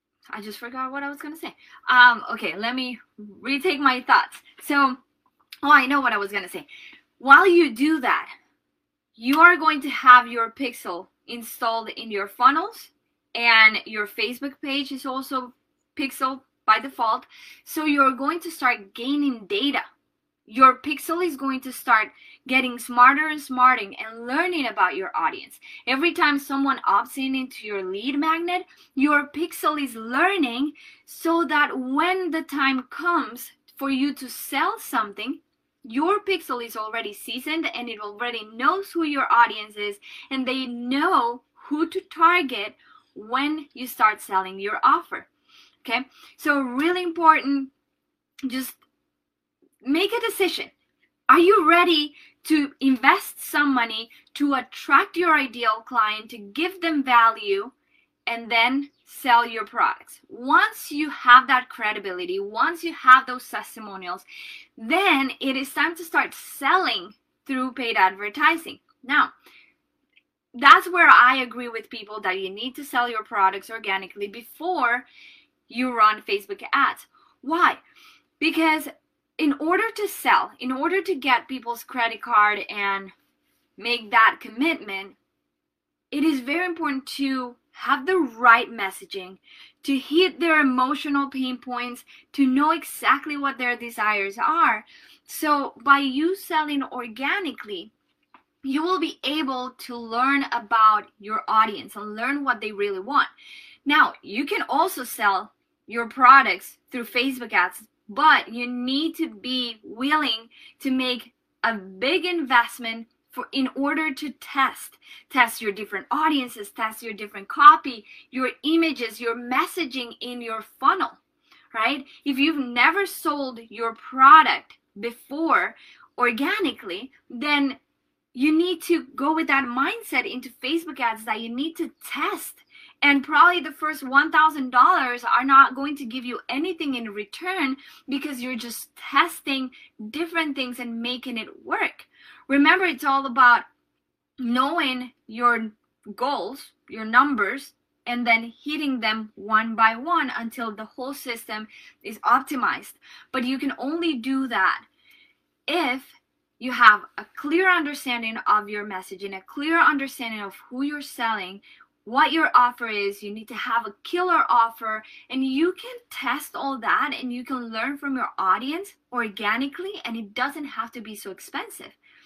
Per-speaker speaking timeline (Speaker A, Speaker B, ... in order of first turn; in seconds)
Speaker A: 0.3-5.0, 5.6-6.7, 7.2-8.3, 9.2-19.8, 20.5-45.3, 45.8-47.7, 48.5-48.8, 49.8-50.7, 51.3-57.7, 58.3-64.3, 64.8-69.3, 70.5-75.1, 75.7-77.8, 78.4-83.1, 83.8-85.2, 86.1-97.9, 98.6-103.3, 103.9-121.2, 121.7-127.8, 128.3-143.7, 144.4-154.9, 155.7-172.0